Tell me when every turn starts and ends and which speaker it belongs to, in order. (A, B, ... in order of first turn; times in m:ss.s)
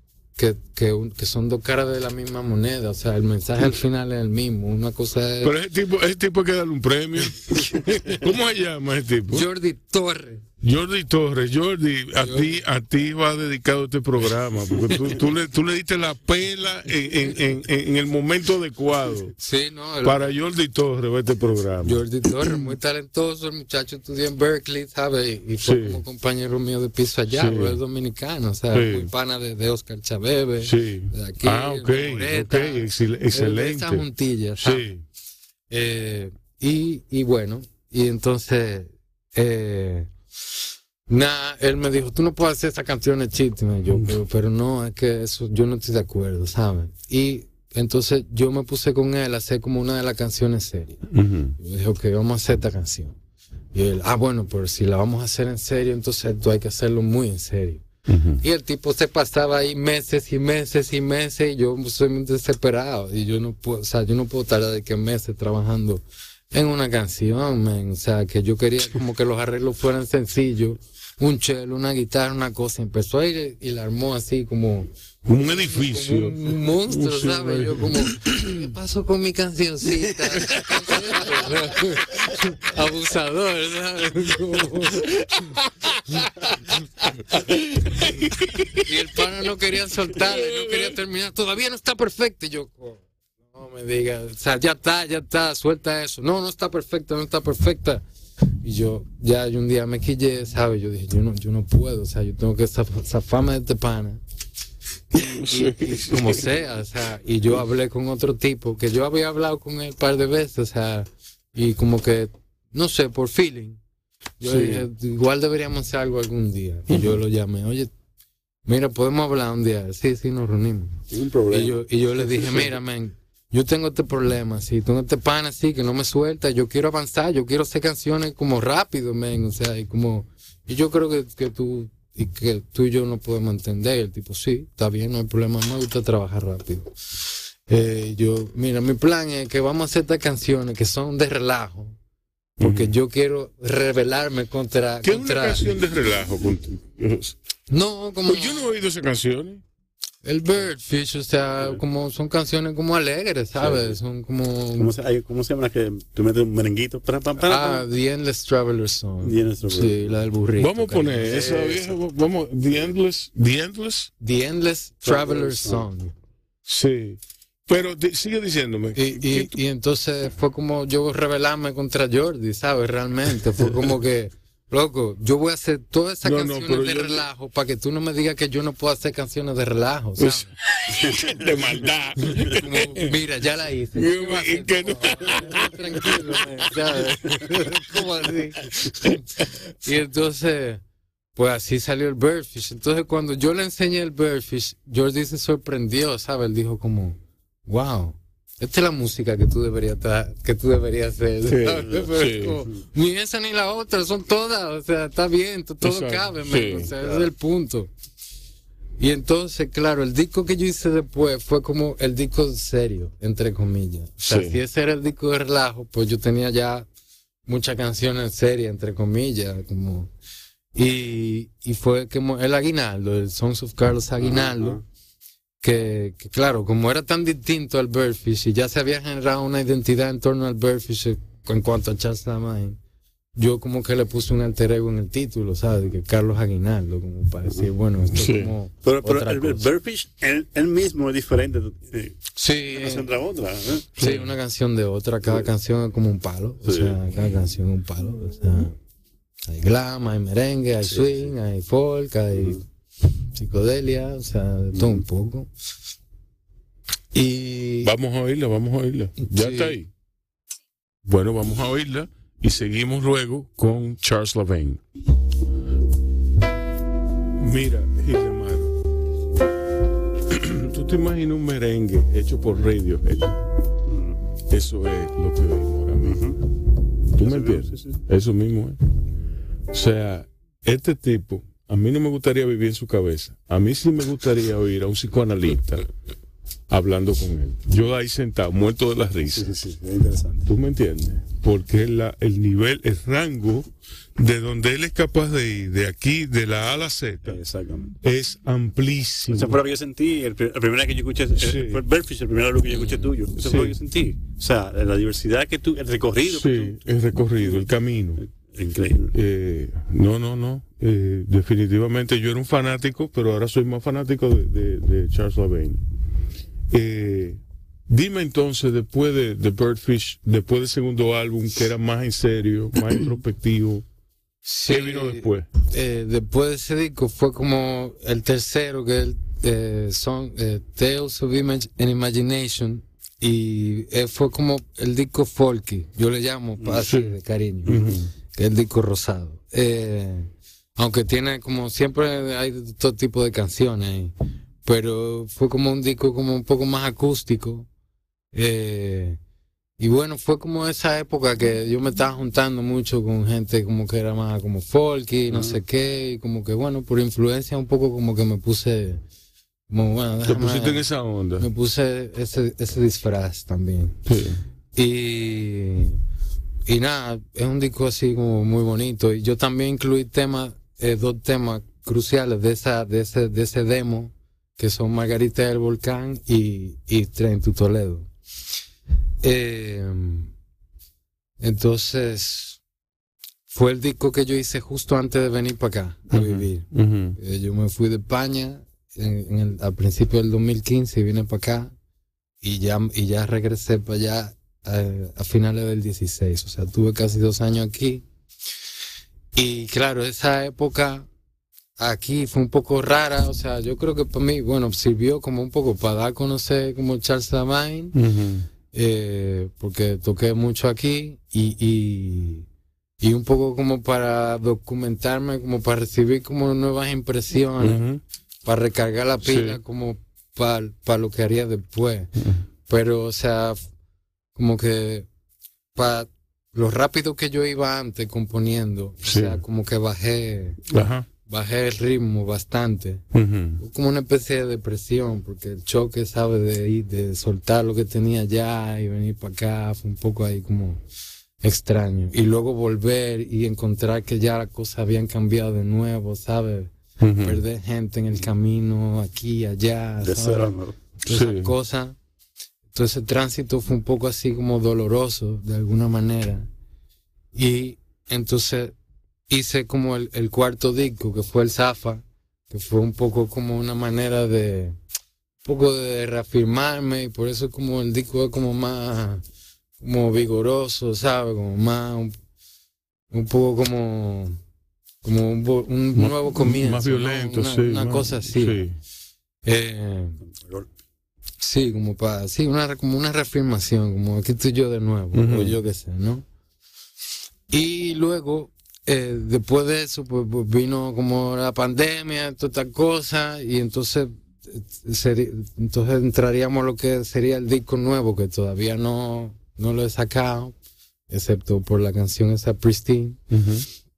0:00.4-0:05.5 A
0:05.4-0:09.5 B
0:09.3-0:10.4 A
0:10.6-0:19.4 B
0:12.2-0:12.5 A
0:19.4-0:20.3 A
0:20.0-0:22.6 B
0:21.8-0:34.9 A
0:25.6-0:26.0 B
0:27.3-0:27.8 B
0:28.7-0:29.1 B
0:30.6-0:34.1 B
0:34.6-0:35.0 B
0:35.7-0:40.1 A
0:41.1-0:53.2 A
0:51.1-0:51.6 B
0:53.7-0:57.8 A
0:58.1-0:58.4 B
0:58.4-1:25.6 A
1:15.2-1:18.7 B
1:20.4-1:21.5 B
1:24.9-1:26.3 B
1:26.1-1:26.8 A
1:27.3-1:28.9 B
1:28.8-1:38.0 A
1:30.1-1:31.0 B
1:38.6-1:44.2 A
1:45.1-1:53.8 A
1:45.2-1:46.6 B
1:54.4-1:57.9 A
1:54.4-1:54.9 B
1:56.9-1:57.2 B
1:58.7-2:16.9 A
2:01.1-2:01.8 C
2:17.7-2:22.0 A
2:22.6-2:25.7 A
2:22.6-2:23.0 B
2:25.0-2:27.4 B
2:27.7-2:28.7 A
2:28.2-2:29.6 B
2:30.2-2:34.9 A
2:33.6-2:34.0 C
2:34.8-2:37.8 C
2:37.4-2:41.8 A
2:39.2-2:40.1 C
2:40.6-2:44.1 B
2:41.3-2:41.6 C
2:44.2-2:46.1 A
2:45.1-2:45.9 C
2:46.7-2:49.6 B
2:49.0-3:00.6 A
2:56.2-2:57.3 B
3:00.2-3:03.2 B
3:00.9-3:01.8 C
3:02.2-3:10.8 A
3:04.0-3:07.7 B
3:08.7-3:09.4 B
3:11.4-3:27.9 A
3:21.5-3:22.6 B
3:25.8-3:26.9 B
3:27.0-3:27.3 C
3:29.0-3:36.9 A
3:34.2-3:34.6 B
3:37.5-3:40.1 A
3:40.8-3:44.8 A
3:44.2-3:44.8 C
3:45.6-3:52.8 A
3:53.4-3:59.7 A
3:58.1-3:58.5 B
3:58.8-4:02.2 C
4:02.4-4:03.1 A
4:02.7-4:03.9 C
4:04.0-4:04.4 B
4:04.0-4:08.8 A
4:06.6-4:07.0 C
4:09.5-4:12.6 A
4:10.9-4:11.3 C
4:12.3-4:12.6 C
4:13.3-4:15.5 A
4:17.1-4:17.9 A
4:17.8-4:19.9 B
4:19.3-4:19.8 A
4:21.0-4:24.8 B
4:27.4-4:28.8 B
4:30.2-4:33.5 B
4:33.9-4:34.2 C
4:34.5-4:36.4 B
4:36.0-4:36.4 C
4:37.1-4:38.8 B
4:37.2-4:38.0 C
4:39.7-4:45.9 B
4:46.7-4:49.5 B
4:49.3-4:50.5 C
4:50.5-4:57.4 B
4:57.2-4:57.9 C
4:58.0-4:59.6 B
4:59.3-5:06.8 C
5:01.4-5:01.8 B
5:02.7-5:03.8 B
5:06.3-5:08.2 B
5:08.2-5:09.1 C
5:09.1-5:15.8 B
5:16.7-5:23.9 B
5:24.4-5:37.8 A
5:24.7-5:25.5 B
5:36.6-5:36.9 C
5:36.8-5:38.1 B
5:37.7-5:38.0 C
5:38.4-5:44.1 A
5:44.6-5:47.7 A
5:48.3-5:49.2 A
5:49.8-5:59.0 A
5:55.3-5:55.6 C
5:59.7-6:00.9 A
6:00.2-6:01.5 B
6:01.4-6:04.0 A
6:04.1-6:04.4 B
6:04.8-6:06.0 A
6:06.7-6:18.1 A
6:19.2-6:20.3 A
6:21.4-6:22.6 A
6:23.5-6:31.7 A
6:26.1-6:27.2 B
6:32.4-6:38.0 A
6:39.4-6:41.1 A
6:41.8-6:48.0 A
6:47.9-6:48.5 B
6:48.7-6:52.5 A
6:53.0-6:57.8 A
6:57.6-6:58.0 B
6:58.4-7:02.1 A
6:59.2-6:59.6 B
7:02.2-7:02.4 B
7:02.7-7:03.6 A
7:04.4-7:05.1 A
7:05.8-7:10.7 A
7:09.0-7:09.4 B
7:10.7-7:11.1 B
7:11.2-7:13.0 A
7:13.1-7:13.6 B
7:13.6-7:20.8 A
7:21.4-7:32.0 A
7:27.0-7:27.4 B
7:30.0-7:30.8 C
7:31.1-7:31.5 B
7:32.7-7:36.5 A
7:37.3-7:38.8 A
7:39.3-7:44.8 A
7:45.4-7:49.2 A
7:49.8-7:52.2 A
7:53.1-7:54.4 A
7:55.0-7:58.6 A
7:56.0-7:58.8 B
7:59.4-8:00.2 A
8:00.2-8:00.7 C
8:01.4-8:06.2 A
8:05.1-8:05.6 B
8:07.5-8:20.6 A
8:21.1-8:23.2 A
8:23.3-8:23.7 B